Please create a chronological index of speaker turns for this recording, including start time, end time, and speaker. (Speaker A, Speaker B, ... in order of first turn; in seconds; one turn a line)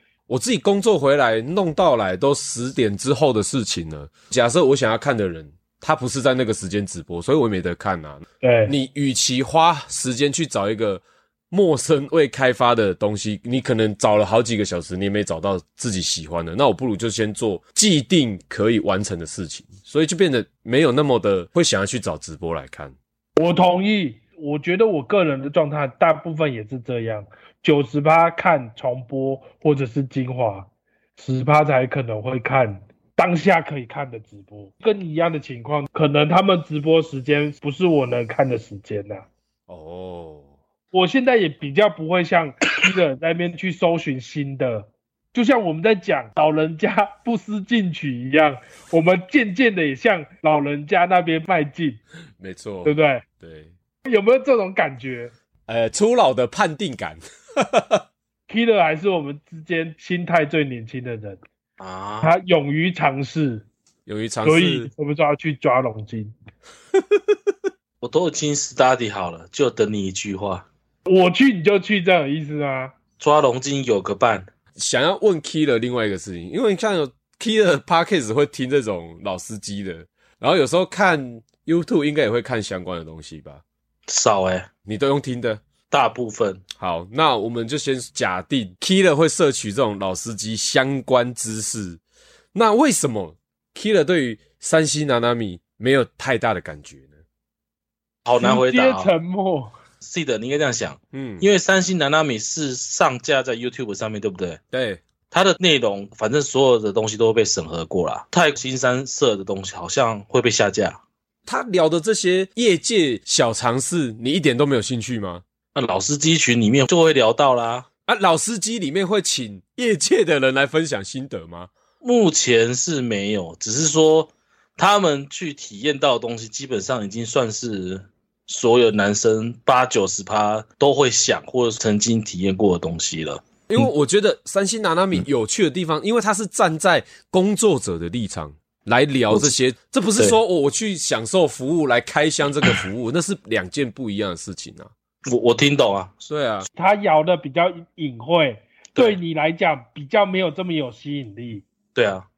Speaker A: 0.3-22.9
Speaker B: 8.4-8.8
Speaker B: 23.4-39.3
Speaker A: 39.7-40.5
Speaker B: 40.9-52.0
Speaker A: 52.4-53.7
Speaker B: 52.9-53.2
Speaker B: 54.0-55.3
Speaker A: 55.7-58.0
Speaker B: 58.5-61.4
Speaker C: 61.8-62.3
Speaker B: 62.2-63.7
Speaker A: 64.1-64.9
Speaker B: 64.4-66.3
Speaker C: 68.0-70.7
Speaker B: 71.1-72.9
Speaker C: 73.2-74.5
Speaker A: 74.8-83.6
Speaker C: 84.1-84.7
Speaker A: 84.9-85.6
Speaker C: 85.9-86.6
Speaker A: 86.8-92.0
Speaker A: 92.5-97.1
Speaker C: 98.2-99.1
Speaker B: 98.4-99.7
Speaker C: 100.0-104.6
Speaker A: 101.1-101.5
Speaker A: 104.7-105.0
Speaker C: 105.3-111.0
Speaker A: 111.5-115.4
Speaker C: 115.8-117.9
Speaker A: 118.1-121.7
Speaker C: 122.0-133.8
Speaker A: 133.7-144.9
Speaker C: 145.3-146.3
Speaker A: 146.3-146.7
Speaker B: 146.7-151.6
Speaker C: 151.9-152.3